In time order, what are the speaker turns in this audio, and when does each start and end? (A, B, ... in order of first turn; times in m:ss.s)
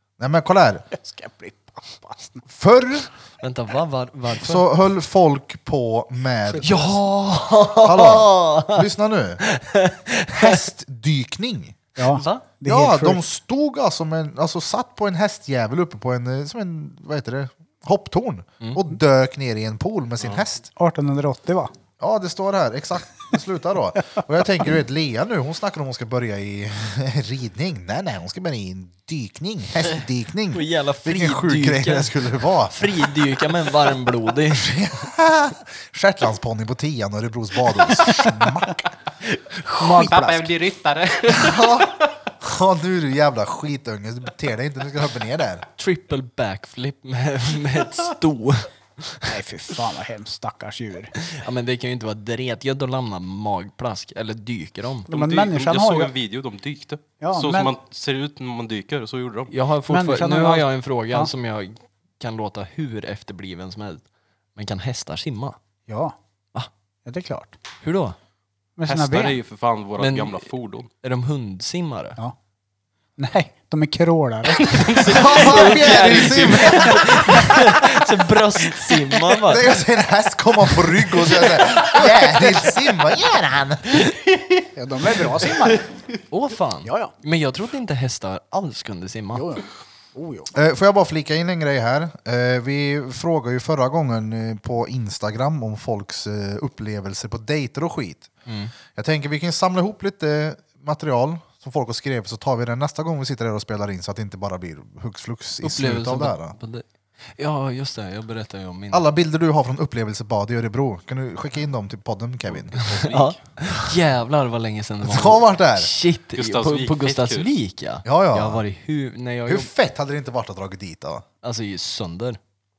0:00.2-0:00.9 A
0:00.9-0:02.4 B
0:02.5-0:03.1 A
0:03.4-0:04.7 C
0:04.4-0:06.9 A
0:06.5-0:07.0 B
0:06.6-0:08.9 C
0:07.8-0:09.4 A
0:09.4-0:10.6 C
0:10.3-0:11.8 A
0:12.0-0:13.2 B
0:12.0-0:12.5 C
0:12.6-0:20.7 A
0:20.8-0:21.7 B
0:22.0-0:33.1 A
0:30.5-0:35.0 C
0:34.6-0:38.8 A
0:39.2-0:40.2 C
0:39.8-0:40.5 B
0:40.0-0:42.1 D
0:41.3-0:45.7 A
0:45.8-0:49.3 C
0:49.3-0:51.2 B
0:51.2-0:55.1 C
0:55.1-0:59.5 D
0:55.1-0:56.1 B
0:57.2-0:57.7 B
0:59.5-1:04.0 C
0:59.9-1:01.3 B
1:04.6-1:05.6 C
1:05.9-1:06.2 B
1:07.0-1:07.6 B
1:07.8-1:08.2 C
1:08.8-1:09.4 B
1:08.9-1:10.9 D
1:10.0-1:10.5 C
1:11.0-1:12.2 C
1:13.2-1:14.9 B
1:14.5-1:18.0 D
1:15.1-1:17.5 A
1:15.1-1:19.7 C
1:19.4-1:24.0 A
1:21.2-1:22.4 D
1:24.8-1:25.8 B
1:26.3-1:29.5 C
1:26.8-1:27.1 B
1:29.4-1:30.5 B
1:30.5-1:38.3 A
1:38.5-1:38.7 C
1:38.9-1:46.6 A
1:45.6-1:46.8 C
1:47.4-1:49.0 C
1:48.9-1:53.2 A
1:52.5-1:53.4 D
1:52.9-1:59.7 C
1:55.0-1:55.9 A
1:56.4-1:57.5 D
1:58.0-1:58.6 A
1:59.5-2:01.2 A
2:01.4-2:02.4 C